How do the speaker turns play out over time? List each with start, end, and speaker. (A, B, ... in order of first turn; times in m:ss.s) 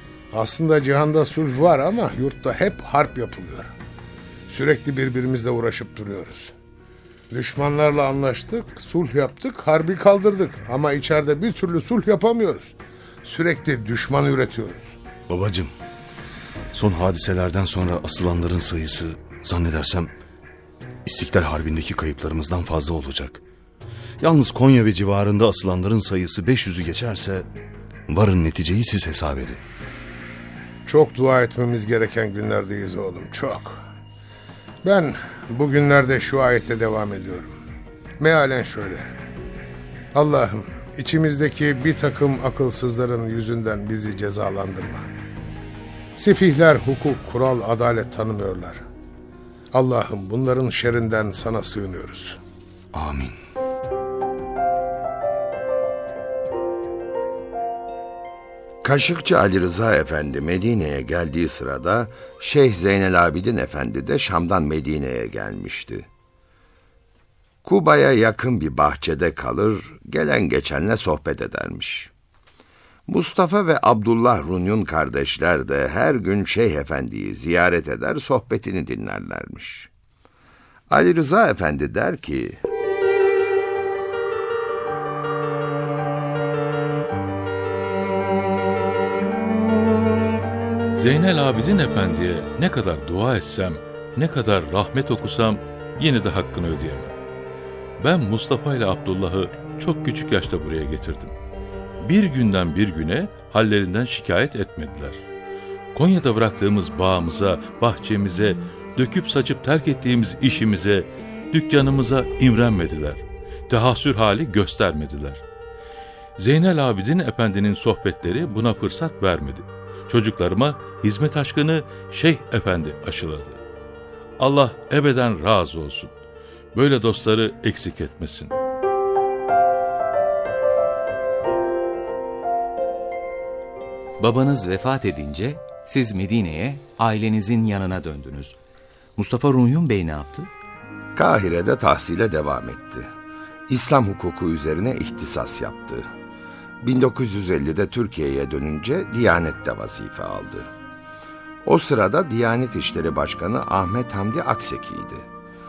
0:00.3-0:03.7 A
0:04.5-0:06.5 A
0:07.3-0:14.9 A
0:15.3-0:15.7 B
0:16.7-0:20.1 B
0:21.0-0:23.4 B
0:24.2-0:27.5 B
0:28.1-0:29.6 B
0:30.8-0:33.8 A
0:34.8-0:37.5 A
0:38.2-0:39.1 A
0:40.1-0:45.1 A
0:46.2-0:48.8 A
0:49.7-0:52.4 A
0:52.9-0:53.4 B
0:58.8-1:06.1 C
1:07.6-1:12.1 C
1:13.1-1:19.9 C
1:20.9-1:22.6 C
1:30.9-1:37.1 D
1:38.0-1:41.3 D
1:42.0-1:45.2 D
1:45.9-1:55.4 D
1:56.4-2:03.6 D
2:04.4-2:06.1 D
2:06.7-2:08.6 D
2:14.2-2:18.6 E
2:19.2-2:20.5 E
2:21.2-2:23.1 C
2:23.7-2:26.1 C
2:26.8-2:30.7 C
2:31.6-2:35.3 C